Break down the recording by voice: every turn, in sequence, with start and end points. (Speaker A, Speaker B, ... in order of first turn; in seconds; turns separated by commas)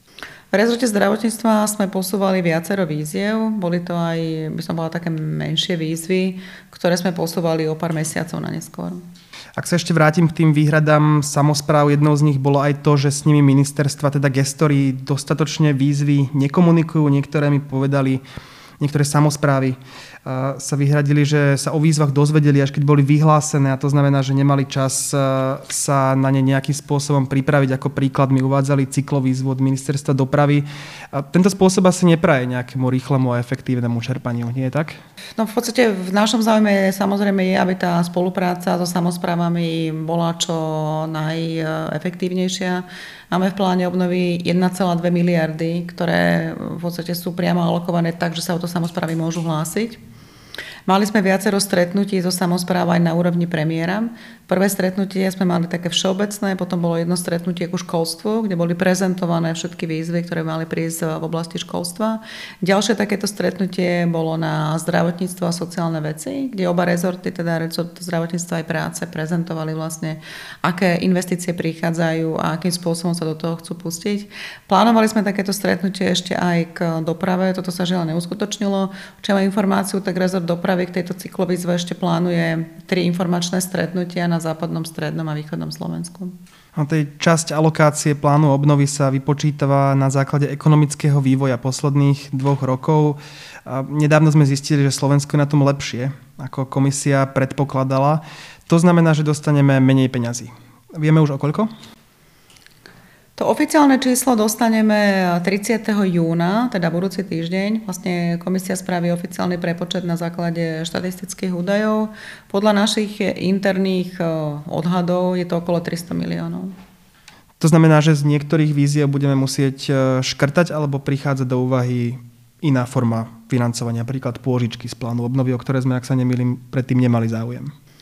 Speaker A: 0.5-9.0, Speaker B: 9.6-18.2, Speaker B: 18.8-35.0, Speaker A: 35.4-50.0, Speaker A: 50.9-86.4, Speaker B: 86.8-101.7, Speaker A: 103.4-116.8, Speaker B: 117.6-127.7